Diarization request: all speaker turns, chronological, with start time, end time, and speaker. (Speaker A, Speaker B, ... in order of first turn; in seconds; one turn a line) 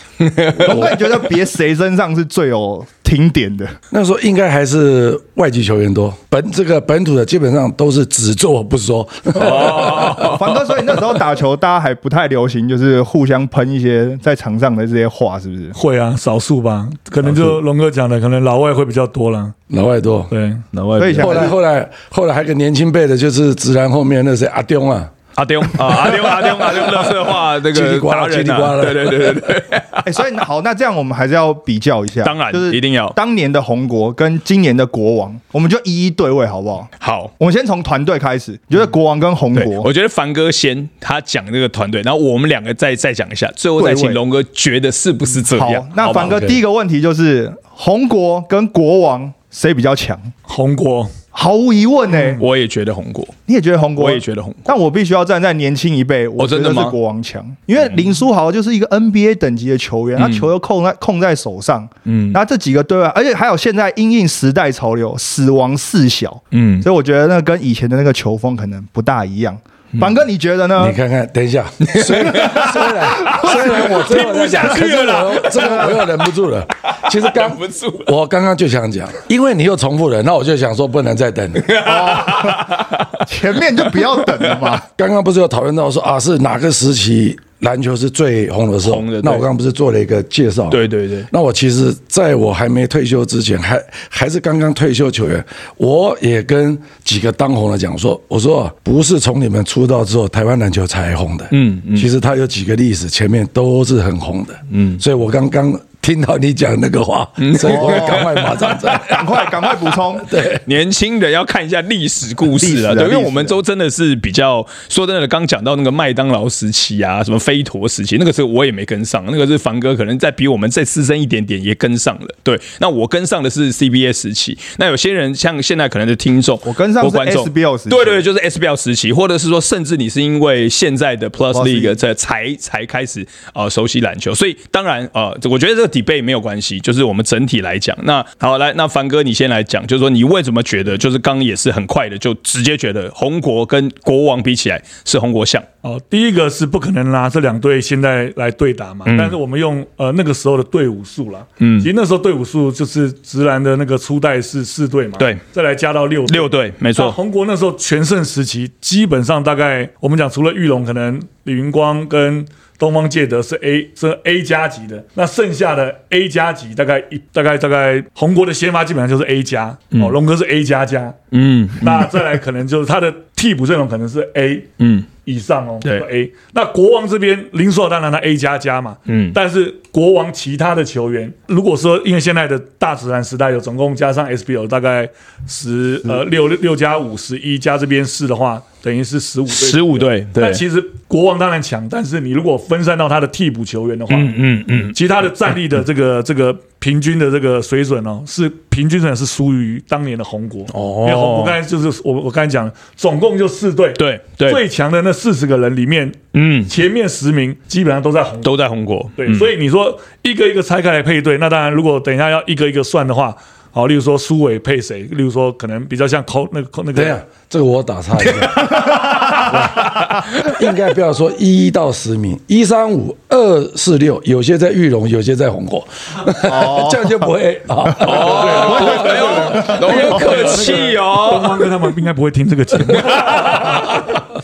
Speaker A: 0.2-1.2
Speaker B: 0.6-3.7
Speaker C: 3.9-10.3
Speaker A: 9.3-10.6
Speaker B: 10.1-15.8
Speaker D: 15.7-19.5
Speaker C: 17.2-17.6
Speaker C: 19.7-20.3
Speaker D: 20.3-20.6
Speaker A: 20.7-21.5
Speaker B: 21.0-21.5
Speaker C: 21.2-25.1
Speaker A: 25.3-30.1
Speaker C: 26.7-29.5
Speaker B: 30.0-39.9
Speaker A: 32.2-33.2
Speaker A: 37.0-37.3
Speaker A: 39.5-46.5
Speaker B: 43.8-44.2
Speaker B: 45.5-50.3
Speaker C: 46.2-46.6
Speaker D: 50.5-51.1
Speaker B: 51.3-52.4
Speaker A: 52.4-53.3
Speaker B: 53.5-71.0
Speaker A: 54.0-54.7
Speaker A: 56.4-57.0
Speaker A: 60.2-60.5
Speaker A: 62.0-62.4
Speaker A: 66.5-66.9
Speaker C: 70.8-81.7
Speaker A: 71.8-76.1
Speaker B: 72.3-74.0
Speaker B: 75.5-76.0
Speaker A: 76.8-78.1
Speaker A: 81.5-83.2
Speaker B: 81.8-84.8
Speaker A: 84.2-84.5
Speaker C: 84.9-109.3
Speaker A: 88.8-89.5
Speaker A: 90.7-91.3
Speaker A: 101.5-102.1
Speaker A: 104.7-105.0
Speaker A: 107.4-109.2
Speaker B: 107.6-108.3
Speaker B: 109.0-110.3
Speaker C: 110.2-110.6
Speaker A: 110.6-145.7
Speaker B: 112.5-113.6
Speaker B: 126.6-128.2
Speaker B: 131.5-132.0
Speaker D: 145.8-171.2
Speaker A: 149.1-149.3
Speaker A: 151.6-151.9
Speaker A: 156.3-157.2
Speaker A: 171.3-172.1
Speaker D: 171.8-174.7
Speaker A: 174.8-175.1
Speaker D: 175.2-208.5
Speaker A: 179.1-179.4
Speaker A: 189.5-190.6
Speaker A: 194.1-194.9
Speaker A: 200.7-201.6
Speaker A: 204.0-204.6
Speaker A: 206.3-206.7
Speaker A: 208.4-209.5
Speaker D: 209.2-217.2
Speaker C: 216.9-230.8
Speaker A: 218.4-220.5
Speaker B: 219.1-219.4
Speaker B: 226.4-227.3
Speaker B: 227.9-230.1
Speaker A: 228.0-231.7
Speaker D: 228.1-234.0
Speaker A: 232.9-234.0